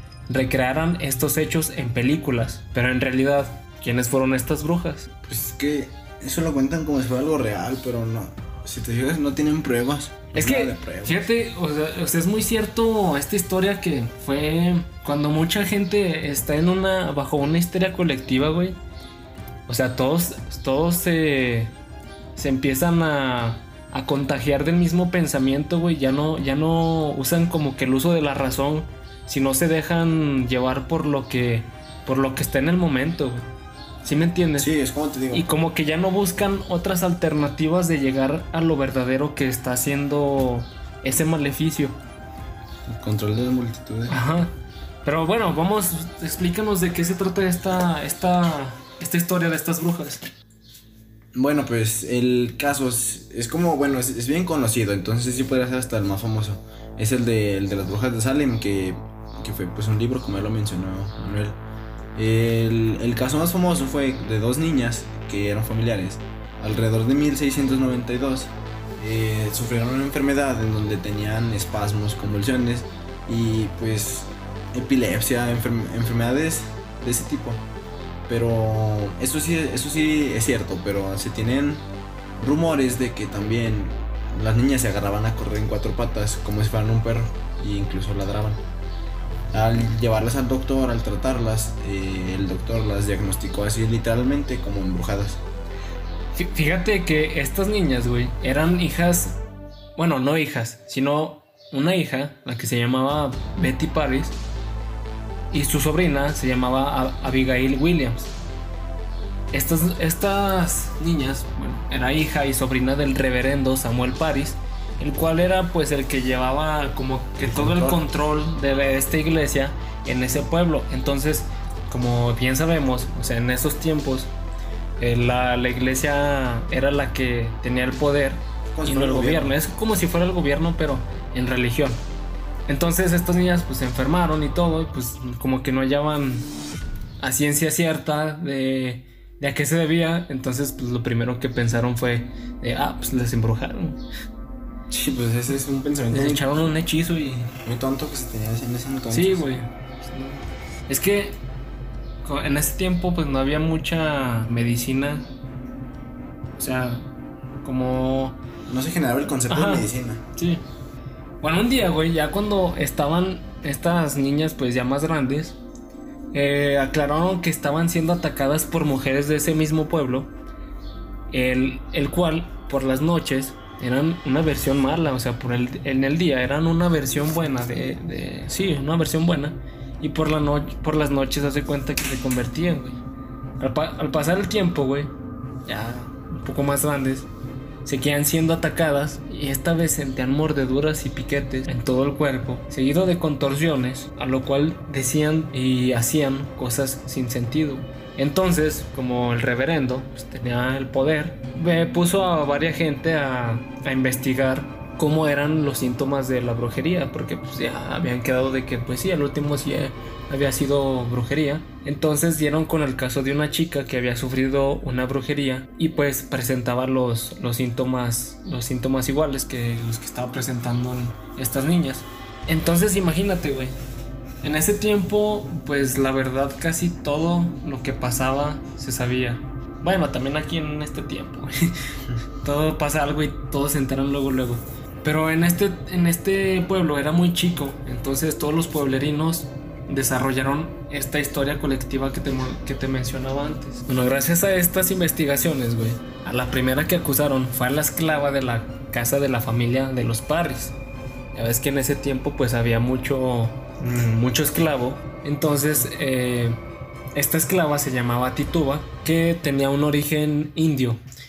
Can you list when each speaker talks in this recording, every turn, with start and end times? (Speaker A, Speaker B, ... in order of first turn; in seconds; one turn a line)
Speaker A: 0.3-5.1
Speaker B: 5.2-11.2
Speaker A: 10.3-18.8
Speaker A: 19.7-21.7
Speaker A: 22.4-33.5
Speaker A: 34.0-34.7
Speaker B: 34.6-35.5
Speaker A: 35.3-42.0
Speaker B: 42.9-44.2
Speaker A: 44.1-44.5
Speaker A: 45.0-50.3
Speaker B: 51.3-61.6
Speaker B: 62.1-77.6
Speaker B: 78.3-81.8
Speaker B: 82.4-88.6
Speaker B: 89.5-95.4
Speaker A: 96.3-99.3
Speaker A: 100.0-104.4
Speaker A: 105.5-108.3
Speaker A: 109.5-124.3
Speaker B: 117.4-118.0
Speaker A: 125.0-132.0
Speaker B: 128.7-129.6
Speaker A: 132.7-136.5
Speaker A: 137.2-144.0
Speaker B: 144.9-146.7
Speaker A: 146.1-147.5
Speaker B: 147.5-149.5
Speaker A: 149.1-151.4
Speaker A: 152.2-155.2
Speaker A: 156.6-157.1
Speaker A: 157.6-158.4
Speaker B: 158.7-160.2
Speaker A: 159.5-160.6
Speaker A: 161.4-165.6
Speaker A: 166.3-170.3
Speaker A: 171.3-183.0
Speaker A: 183.6-185.1
Speaker A: 185.7-187.3
Speaker A: 187.8-223.8
Speaker A: 224.4-231.7
Speaker A: 232.4-250.8
Speaker A: 251.3-256.6
Speaker A: 257.1-261.0